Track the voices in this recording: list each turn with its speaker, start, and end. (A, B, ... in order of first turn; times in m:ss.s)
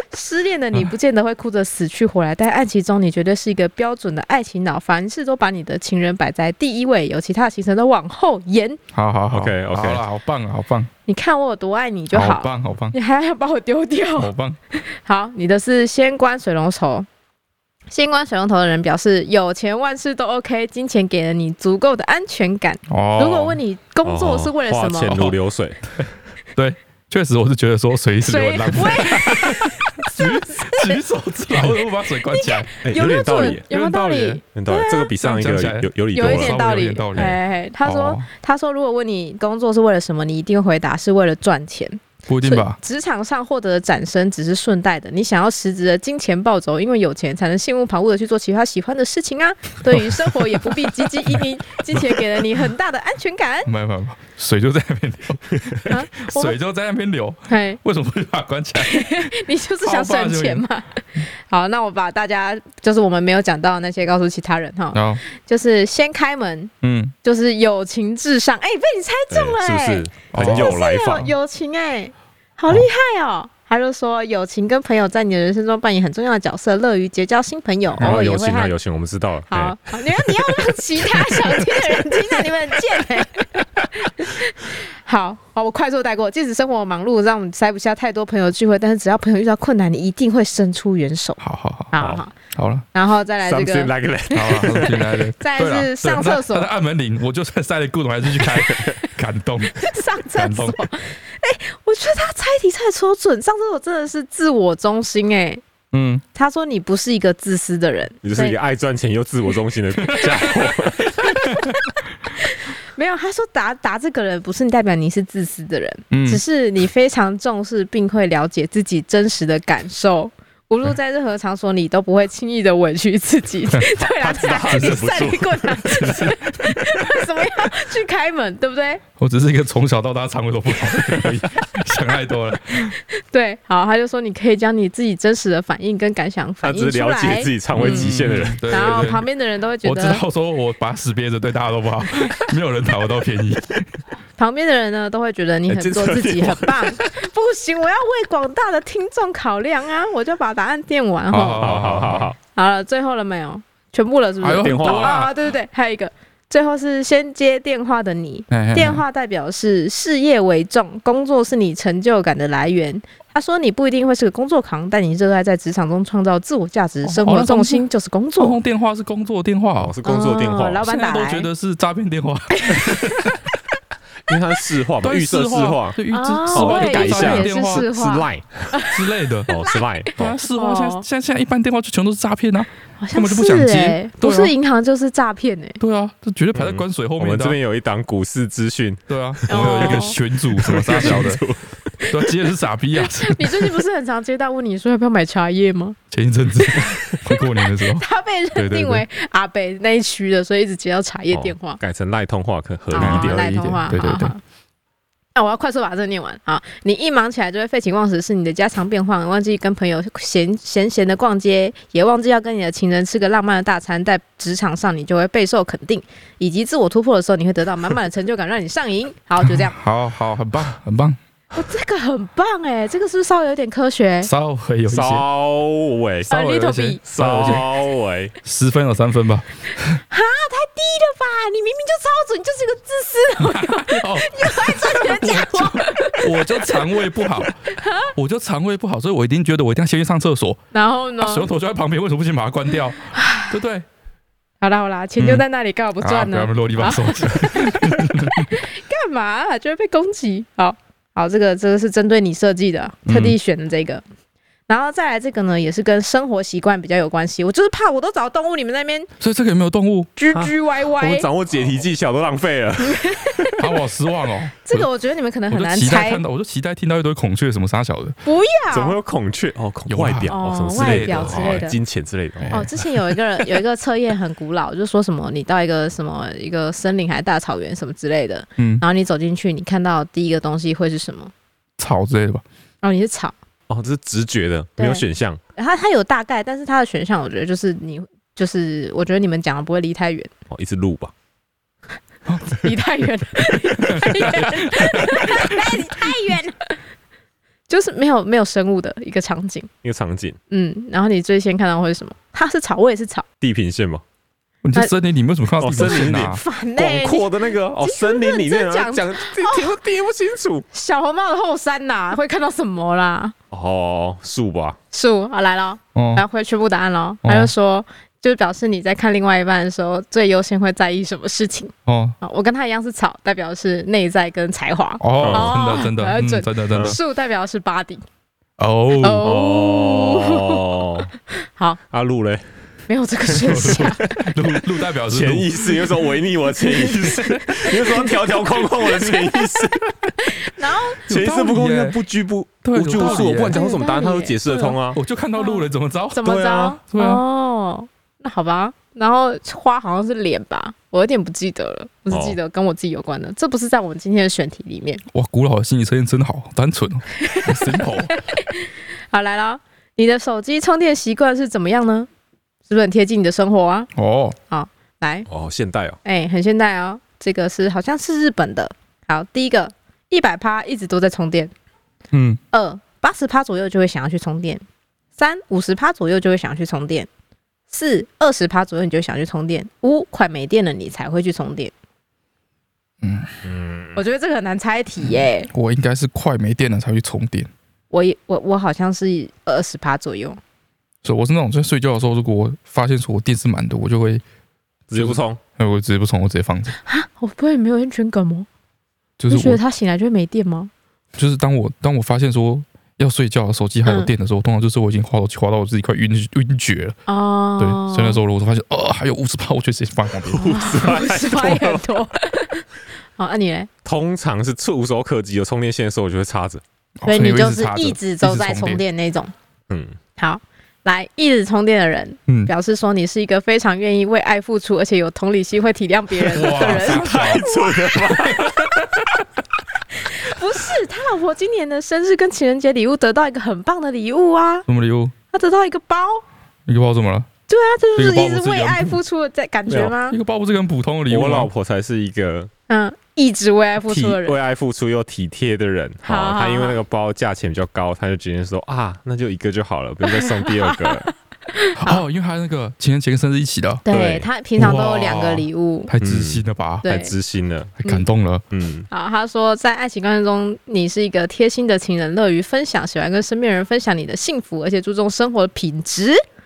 0:00.1-0:08.8 A
0:08.9-0:10.9 B
0:09.3-0:10.0 C
0:11.1-0:17.1 A
0:12.1-0:12.9 B
0:14.2-0:14.6 B
0:17.9-0:25.3 A
0:22.9-0:23.6 B
0:24.0-0:25.8 C
0:26.0-0:32.7 B
0:28.2-0:31.0 A
0:32.3-0:35.1 A
0:32.8-0:33.7 C
0:33.7-0:34.4 B
0:34.5-0:36.6 C
0:35.2-0:38.3 B
0:36.1-0:53.7 A
0:42.3-0:42.8 B
0:53.6-1:00.6 B
0:55.8-0:56.6 A
0:57.5-0:57.8 A
0:58.8-1:06.7 A
1:04.9-1:05.2 B
1:06.8-1:07.1 B
1:07.2-1:18.7 A
1:09.3-1:11.3 C
1:10.3-1:11.3 B
1:18.0-1:22.0 C
1:19.5-1:31.4 A
1:31.4-1:32.0 B
1:31.9-1:32.3 A
1:32.5-1:32.8 B
1:32.9-1:36.7 A
1:33.4-1:35.2 C
1:34.3-1:40.8 B
1:38.5-1:38.9 C
1:39.8-1:45.6 A
1:45.9-1:46.2 B
1:46.3-1:48.6 A
1:48.2-1:51.3 C
1:50.1-1:51.7 B
1:51.2-2:09.0 A
1:56.1-1:56.4 B
2:04.0-2:06.2 C
2:04.7-2:05.0 B
2:05.9-2:06.9 B
2:09.2-2:13.0 B
2:11.0-2:11.4 C
2:13.0-2:18.2 A
2:16.6-2:18.6 C
2:17.7-2:19.2 B
2:18.7-2:20.2 A
2:19.8-2:24.0 B
2:24.4-2:31.9 A
2:25.7-2:27.1 C
2:31.3-2:32.3 B
2:31.6-2:32.4 C
2:32.5-2:48.6 A
2:34.4-2:35.3 B
2:34.6-2:35.2 C
2:38.5-2:39.0 B
2:47.0-2:47.9 B
2:48.4-2:49.9 B
2:49.8-2:50.8 C
2:50.0-2:51.5 A
2:50.8-2:53.4 B
2:52.5-2:53.4 A
2:54.2-2:56.0 C
2:55.0-2:57.9 B
2:56.1-3:01.0 A
2:56.5-2:58.9 C
2:58.9-2:59.5 B
2:59.5-3:00.4 C
3:00.2-3:04.5 B
3:03.0-3:05.8 A
3:05.8-3:07.6 B
3:06.5-3:11.7 C
3:09.1-3:11.4 B
3:09.5-3:10.2 A
3:12.1-3:13.7 B
3:13.0-3:16.0 A
3:16.1-3:19.0 B
3:16.6-3:21.8 A
3:21.3-3:23.6 C
3:22.9-3:24.4 A
3:23.0-3:24.3 B
3:25.4-3:39.8 A
3:39.4-3:41.2 B
3:41.5-3:44.3 A
3:44.2-3:45.2 B
3:44.9-3:46.3 C
3:46.3-3:47.6 A
3:46.3-3:47.6 B
3:47.1-3:48.3 C
3:48.4-3:50.0 B
3:50.1-3:57.0 A
3:53.4-4:00.6 B
3:57.6-3:58.1 A
4:00.7-4:01.5 A
4:01.2-4:03.9 B
4:03.1-4:03.6 A
4:04.6-4:14.0 A
4:05.2-4:05.4 B
4:06.0-4:08.5 B
4:13.0-4:13.4 B
4:14.7-4:19.1 A
4:19.2-4:20.1 B
4:20.2-4:21.3 A
4:20.3-4:23.5 C
4:22.8-4:23.6 A
4:23.6-4:24.9 B
4:24.6-4:26.2 A
4:25.5-4:28.2 B
4:28.2-4:29.0 A
4:28.7-4:32.9 C
4:29.9-4:31.7 B
4:30.3-4:31.8 A
4:32.4-4:32.7 B
4:32.5-4:41.3 A
4:38.6-4:38.8 B
4:41.8-4:42.4 B
4:42.8-4:43.3 A
4:43.7-4:45.4 C
4:44.8-4:45.0 A
4:45.6-4:50.3 A
4:50.5-4:51.1 C
4:52.2-4:52.6 B
4:52.5-4:56.8 A
4:53.8-4:55.8 B
4:57.7-4:59.7 A
4:59.8-5:00.4 C
5:00.5-5:03.2 A
5:03.4-5:04.0 C
5:04.6-5:06.4 B
5:05.6-5:10.6 C
5:05.7-5:09.8 A
5:10.7-5:13.3 A
5:13.5-5:14.8 C
5:14.9-5:28.0 A
5:15.9-5:16.2 B
5:17.2-5:17.5 B
5:21.8-5:22.2 B
5:25.0-5:27.0 B
5:25.2-5:25.6 C
5:28.6-5:29.3 B
5:29.0-5:30.6 A
5:29.2-5:31.1 C
5:31.9-5:32.4 C
5:32.9-5:34.2 A
5:33.3-5:34.3 C
5:33.4-5:35.8 B
5:35.1-5:40.1 C
5:36.7-5:39.7 A
5:40.2-5:41.0 A
5:41.0-5:45.0 C
5:41.1-5:42.0 B
5:42.6-5:43.6 B
5:43.0-5:44.8 A
5:44.9-5:47.2 B
5:45.3-5:55.0 A
5:46.2-5:46.8 C
5:52.1-5:52.4 C
5:55.1-5:58.1 B
5:57.2-6:02.1 A
6:02.7-6:03.9 A
6:03.9-6:04.4 B
6:04.5-6:05.3 A
6:05.3-6:06.0 C
6:06.0-6:11.5 A
6:12.1-6:12.4 B
6:12.5-6:14.6 A
6:15.2-6:17.1 A
6:17.7-6:21.7 A
6:23.0-6:23.4 B
6:23.4-6:24.0 C
6:24.0-6:25.5 A
6:25.5-6:27.5 B
6:27.9-6:30.4 A
6:31.0-6:34.2 B
6:34.9-6:35.4 C
6:34.9-6:36.8 B
6:36.8-6:38.5 A
6:39.2-6:39.6 B
6:39.3-6:40.7 A
6:41.1-6:47.0 B
6:47.1-6:48.2 A
6:47.6-6:50.6 B
6:50.2-6:51.9 C
6:50.4-6:52.6 A
6:53.2-6:53.7 A
6:53.8-6:56.6 C
6:57.0-6:58.8 B
6:57.1-6:59.3 A
6:59.7-7:00.0 C
7:00.2-7:08.5 A
7:06.3-7:07.4 B
7:06.4-7:08.8 C
7:08.3-7:08.9 B
7:09.9-7:14.6 A
7:14.7-7:15.1 B
7:15.3-7:16.2 A
7:16.7-7:17.3 B
7:17.5-7:20.2 A
7:18.0-7:19.0 B
7:20.1-7:21.5 B
7:21.1-7:22.5 C
7:22.7-7:24.4 A
7:23.8-7:31.1 C
7:26.0-7:26.8 A
7:30.0-7:32.0 A
7:31.8-7:33.8 B
7:33.8-7:35.9 A
7:33.9-7:34.3 C
7:34.6-7:36.9 B
7:36.0-7:37.8 C
7:36.8-7:37.1 A
7:37.8-7:38.4 B
7:38.5-7:38.9 C
7:38.9-7:46.2 A